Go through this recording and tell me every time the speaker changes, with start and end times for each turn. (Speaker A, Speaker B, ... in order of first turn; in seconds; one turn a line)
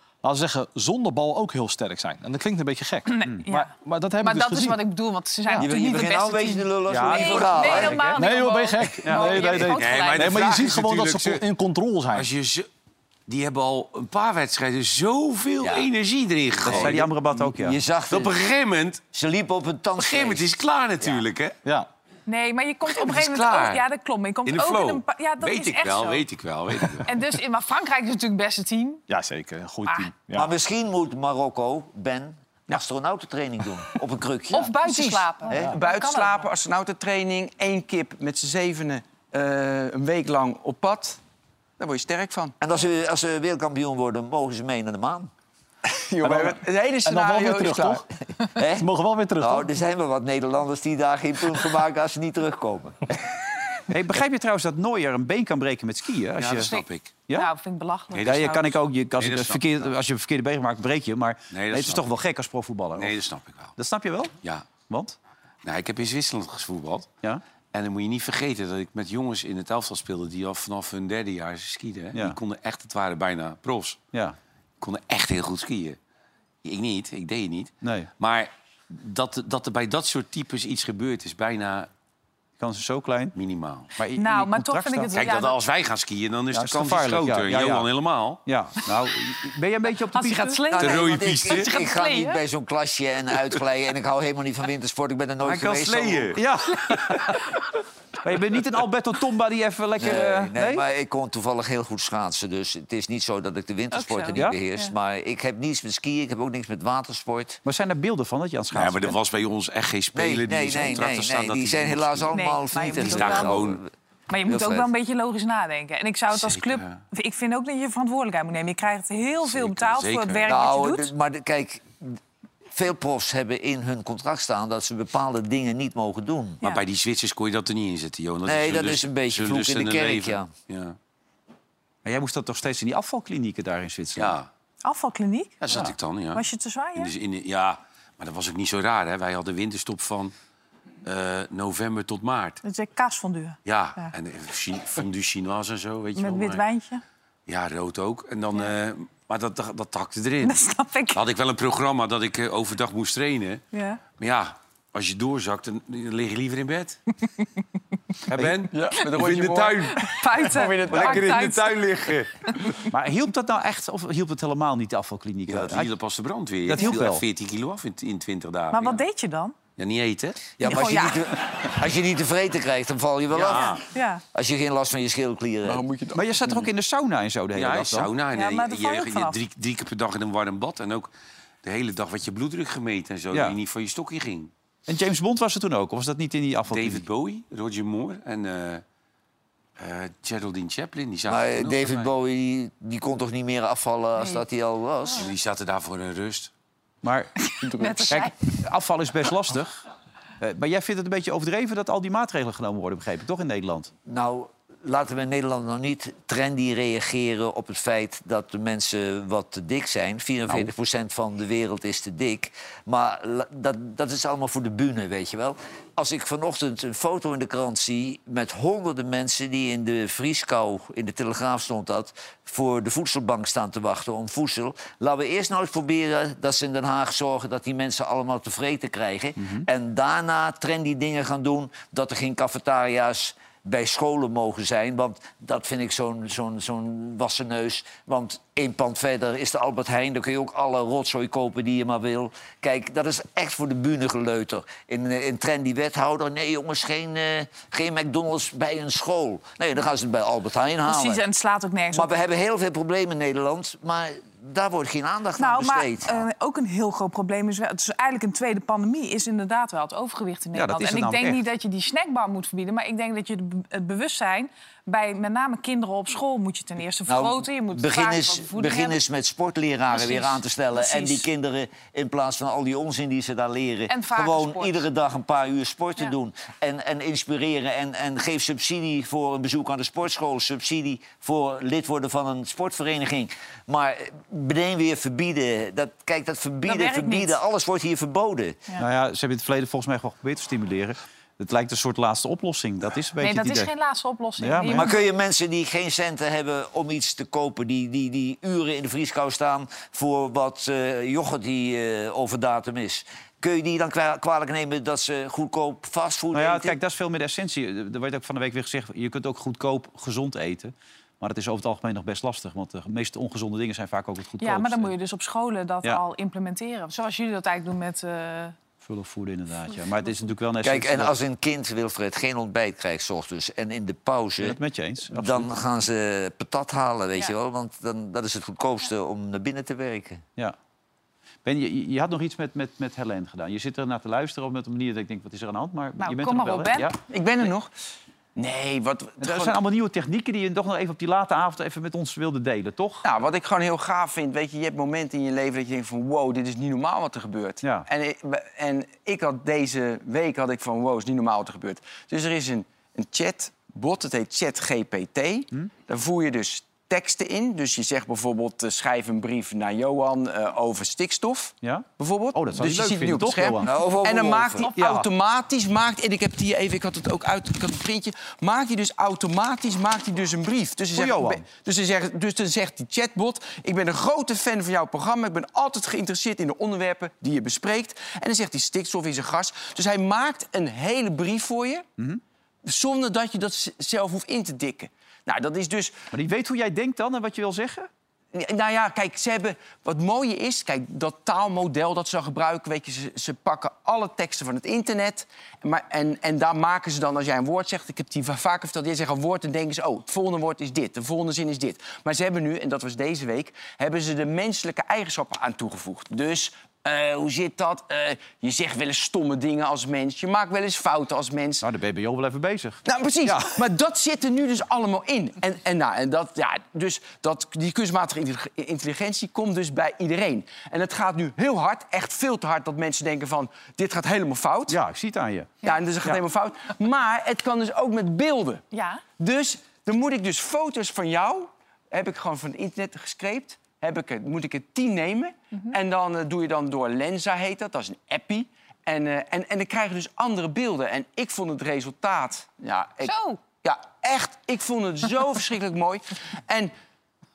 Speaker A: 0.2-4.8
Speaker B: 3.0-10.6
Speaker C: 5.5-8.1
Speaker D: 6.9-8.2
Speaker A: 8.1-12.3
Speaker D: 9.0-9.3
Speaker E: 9.5-11.4
Speaker E: 12.1-12.7
Speaker E: 13.3-17.1
Speaker C: 15.6-15.9
Speaker D: 16.6-17.8
Speaker C: 16.6-18.3
Speaker E: 18.1-19.0
Speaker C: 19.1-20.5
Speaker E: 20.0-21.6
Speaker B: 22.3-26.2
Speaker E: 22.9-23.9
Speaker E: 24.4-27.1
Speaker B: 27.1-29.0
Speaker A: 29.1-30.5
Speaker B: 29.9-30.1
Speaker C: 30.3-34.7
Speaker B: 34.5-36.5
Speaker F: 34.8-41.2
Speaker F: 41.8-42.5
Speaker C: 42.6-45.3
Speaker F: 45.9-48.0
Speaker A: 46.2-48.0
Speaker C: 48.5-48.9
Speaker A: 48.7-49.7
Speaker C: 49.4-53.1
Speaker D: 53.9-56.7
Speaker E: 56.4-57.1
Speaker B: 56.7-58.7
Speaker E: 58.1-58.5
Speaker D: 58.2-63.2
Speaker E: 59.2-59.9
Speaker E: 61.5-62.1
Speaker E: 63.0-63.8
Speaker D: 63.8-64.3
Speaker D: 64.9-65.2
Speaker E: 65.6-67.1
Speaker E: 67.7-74.0
Speaker E: 74.8-76.0
Speaker E: 76.6-81.9
Speaker D: 77.8-78.1
Speaker D: 82.6-83.3
Speaker E: 83.3-83.9
Speaker D: 84.0-85.3
Speaker B: 84.2-85.6
Speaker E: 85.1-88.4
Speaker D: 86.5-87.9
Speaker D: 88.4-90.6
Speaker B: 90.1-92.4
Speaker C: 90.7-96.4
Speaker E: 90.8-91.7
Speaker E: 95.5-96.3
Speaker D: 95.8-97.4
Speaker D: 98.2-100.8
Speaker C: 100.0-107.6
Speaker B: 103.9-104.9
Speaker D: 107.6-109.2
Speaker E: 108.7-112.3
Speaker C: 110.1-113.9
Speaker B: 112.3-113.5
Speaker E: 112.9-113.8
Speaker B: 114.3-121.1
Speaker C: 114.5-114.9
Speaker E: 116.3-117.0
Speaker E: 119.4-120.5
Speaker C: 120.5-122.2
Speaker C: 122.7-126.6
Speaker E: 126.6-130.9
Speaker C: 128.4-130.5
Speaker D: 132.0-134.4
Speaker E: 134.2-134.5
Speaker B: 134.8-137.1
Speaker E: 135.6-136.4
Speaker E: 136.9-140.3
Speaker E: 141.0-142.6
Speaker B: 142.6-144.1
Speaker E: 143.7-146.6
Speaker B: 146.2-147.0
Speaker E: 147.5-150.6
Speaker B: 150.4-151.2
Speaker E: 151.1-153.6
Speaker B: 153.7-154.0
Speaker E: 154.2-157.0
Speaker E: 158.3-160.2
Speaker F: 158.7-161.4
Speaker B: 159.9-161.8
Speaker E: 160.9-162.3
Speaker D: 162.9-165.9
Speaker E: 165.5-169.0
Speaker D: 166.7-167.2
Speaker B: 168.7-169.6
Speaker E: 169.8-170.5
Speaker C: 170.6-173.8
Speaker B: 170.6-171.2
Speaker E: 173.3-173.8
Speaker B: 173.8-174.2
Speaker C: 174.3-175.8
Speaker F: 175.6-176.5
Speaker D: 176.1-178.1
Speaker E: 177.5-181.1
Speaker B: 178.3-179.3
Speaker E: 181.6-184.5
Speaker D: 184.9-187.0
Speaker E: 186.7-188.8
Speaker E: 189.8-192.1
Speaker C: 191.3-195.3
Speaker E: 195.2-196.5
Speaker D: 197.0-197.5
Speaker B: 197.7-198.3
Speaker F: 197.8-198.1
Speaker D: 198.1-199.8
Speaker D: 200.4-203.9
Speaker C: 204.1-251.2
Speaker D: 229.4-229.6
Speaker B: 250.9-252.1
Speaker C: 251.9-256.3
Speaker B: 255.4-269.0
Speaker D: 260.5-261.4
Speaker C: 267.1-288.6
Speaker B: 269.9-271.2
Speaker B: 273.9-274.8
Speaker B: 286.7-287.3
Speaker D: 288.8-293.7
Speaker B: 293.2-295.0
Speaker D: 294.4-294.9
Speaker C: 294.7-306.8
Speaker D: 306.3-314.9
Speaker B: 314.4-318.5
Speaker D: 318.8-321.2
Speaker C: 320.6-324.6
Speaker D: 324.4-325.5
Speaker C: 325.1-330.2
Speaker D: 331.4-336.9
Speaker B: 336.0-336.9
Speaker F: 337.1-337.7
Speaker F: 338.4-339.6
Speaker D: 339.2-343.0
Speaker F: 343.0-381.8
Speaker D: 361.6-363.7
Speaker C: 363.6-364.7
Speaker D: 364.8-365.1
Speaker D: 370.9-371.4
Speaker F: 382.6-385.9
Speaker D: 386.1-387.9
Speaker F: 388.3-411.6
Speaker D: 411.6-413.6
Speaker F: 412.8-424.8
Speaker D: 424.7-426.2
Speaker F: 425.6-446.7
Speaker B: 428.7-429.0
Speaker B: 443.0-443.4